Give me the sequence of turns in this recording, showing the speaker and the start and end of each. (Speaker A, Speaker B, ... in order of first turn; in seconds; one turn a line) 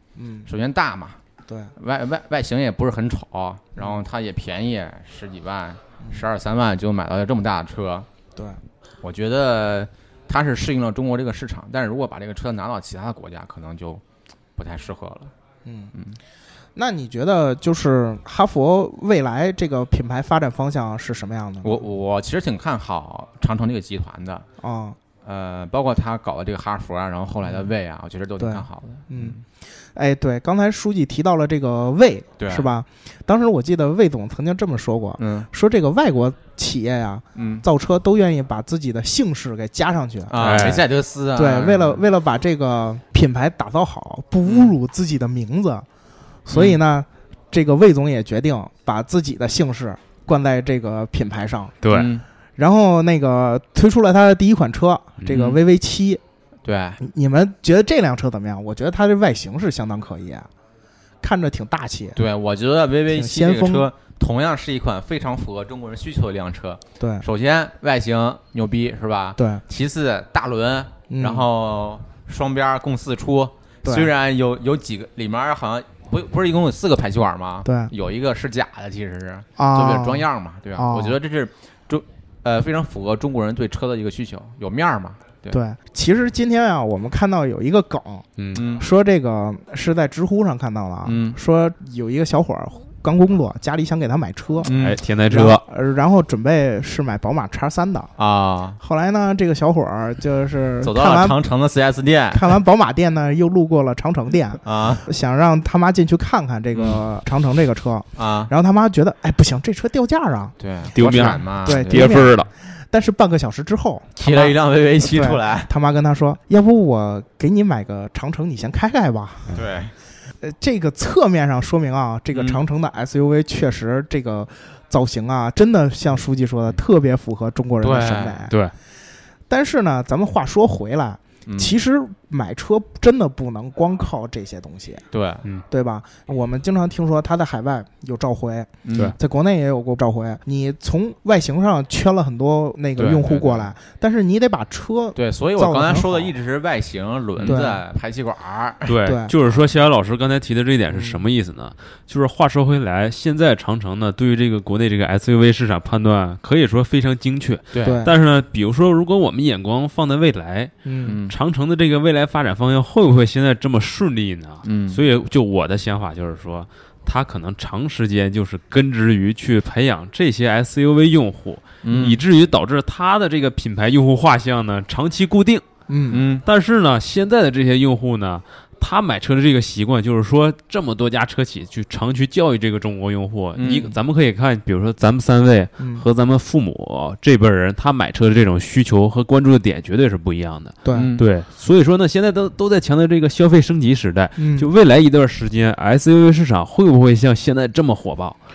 Speaker A: 0.1-0.5
Speaker B: 0.5-1.2
Speaker B: 1.8-8.1
Speaker A: 6.0-6.2
Speaker B: 9.0-14.0
Speaker B: 14.6-15.3
Speaker A: 15.6-15.9
Speaker B: 15.9-16.2
Speaker A: 16.8-21.8
Speaker B: 21.6-24.4
Speaker A: 24.6-25.0
Speaker B: 25.2-29.4
Speaker A: 28.4-29.4
Speaker A: 29.9-40.4
Speaker B: 32.4-32.7
Speaker B: 35.2-35.5
Speaker B: 37.3-37.6
Speaker B: 40.3-42.0
Speaker C: 40.4-40.8
Speaker A: 41.3-45.9
Speaker B: 44.4-44.7
Speaker A: 46.4-51.7
Speaker B: 46.5-46.8
Speaker C: 51.8-52.1
Speaker B: 51.9-52.2
Speaker A: 52.6-56.2
Speaker B: 55.3-55.6
Speaker B: 56.6-57.0
Speaker A: 57.0-60.5
Speaker A: 61.2-62.2
Speaker B: 62.1-85.6
Speaker A: 63.1-63.9
Speaker A: 67.0-67.2
Speaker A: 69.4-69.6
Speaker A: 71.1-71.5
Speaker A: 73.8-74.1
Speaker A: 77.6-77.9
Speaker A: 79.6-81.2
Speaker A: 85.5-94.7
Speaker C: 88.4-88.6
Speaker B: 88.5-88.8
Speaker B: 91.0-91.4
Speaker B: 94.6-95.0
Speaker C: 94.7-95.6
Speaker A: 95.3-98.1
Speaker B: 98.2-98.8
Speaker A: 98.8-101.4
Speaker B: 100.8-102.4
Speaker A: 102.3-119.6
Speaker B: 104.6-105.0
Speaker B: 106.7-107.0
Speaker B: 108.2-108.5
Speaker B: 110.6-112.2
Speaker C: 111.0-112.5
Speaker B: 114.2-115.7
Speaker B: 119.5-119.9
Speaker A: 120.4-128.5
Speaker B: 122.3-122.6
Speaker B: 127.8-128.5
Speaker A: 129.5-135.0
Speaker B: 131.4-131.8
Speaker B: 135.1-135.4
Speaker A: 135.7-146.3
Speaker B: 138.8-139.1
Speaker B: 143.0-143.7
Speaker B: 145.1-148.9
Speaker C: 147.4-147.6
Speaker A: 147.4-147.8
Speaker C: 148.9-160.7
Speaker A: 149.0-149.3
Speaker A: 150.9-151.2
Speaker B: 157.7-158.0
Speaker A: 157.8-158.1
Speaker A: 160.8-161.2
Speaker B: 161.0-161.3
Speaker C: 161.2-175.6
Speaker B: 164.6-165.0
Speaker B: 171.8-172.2
Speaker A: 175.9-176.2
Speaker B: 176.1-176.4
Speaker C: 176.4-198.4
Speaker B: 183.6-183.9
Speaker A: 185.8-186.0
Speaker A: 190.8-191.1
Speaker B: 190.9-191.2
Speaker A: 194.4-194.7